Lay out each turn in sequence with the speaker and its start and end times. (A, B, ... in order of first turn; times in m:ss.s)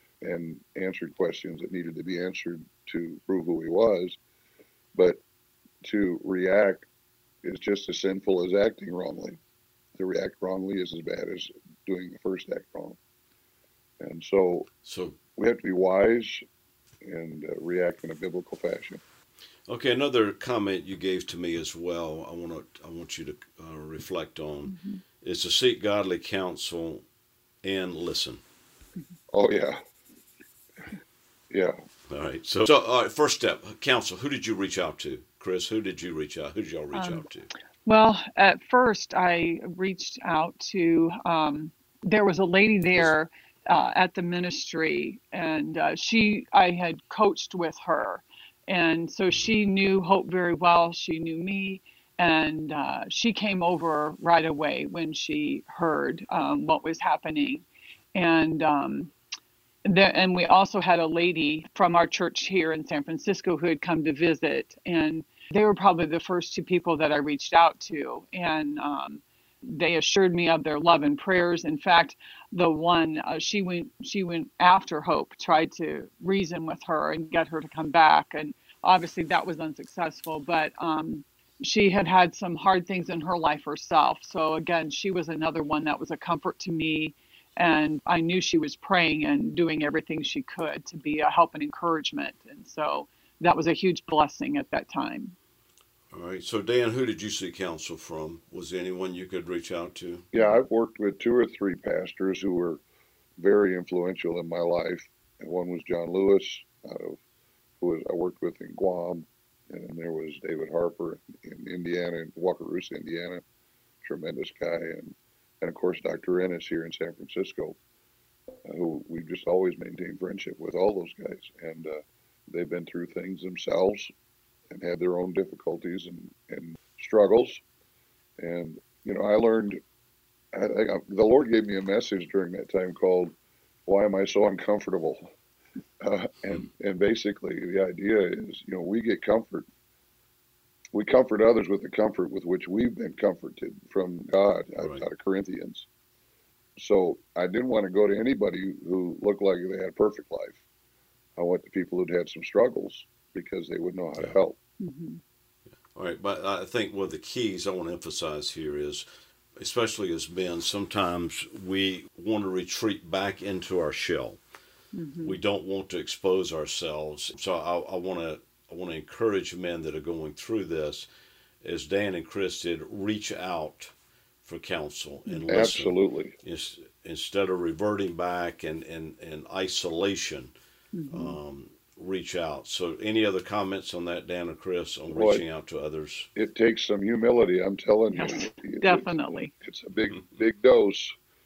0:00.2-0:04.2 A
0:04.9-0:05.2 A
0:05.8-0:06.9 A
0:07.4-0:09.4 A
0:10.0-0:13.0 A
0:14.0-0:14.7 A
0:14.8-0:15.2 B
0:15.4-0:16.4 A
0:17.0-0:19.0 A
0:19.7-0:27.0 B
0:24.7-0:25.0 C
0:27.6-0:28.4 B
0:29.3-0:29.8 A
0:31.5-0:31.8 A
0:32.1-0:37.5 B
0:36.9-0:37.2 C
0:37.8-0:57.6 C
0:58.1-0:59.1 C
0:59.8-1:35.4 C
1:36.1-1:40.2 B
1:40.3-1:42.8 A
1:43.4-1:47.2 A
1:47.8-1:53.4 A
1:54.0-1:57.8 A
1:58.6-2:04.1 A
2:04.7-2:07.6 A
2:08.4-2:09.8 A
2:10.5-2:13.4 A
2:13.9-2:15.3 A
2:16.0-2:19.7 A
2:20.9-2:25.9 A
2:26.8-2:30.6 A
2:31.4-2:34.6 A
2:34.8-2:35.2 C
2:35.9-2:39.0 B
2:39.6-2:44.4 B
2:44.9-2:45.4 C
2:45.2-2:51.0 B
2:51.6-2:53.9 B
2:54.4-3:00.5 B
2:55.5-2:56.3 A
3:00.9-3:01.4 C
3:01.1-3:06.3 B
3:05.1-3:05.4 A
3:06.3-3:11.1 A
3:08.1-3:09.5 C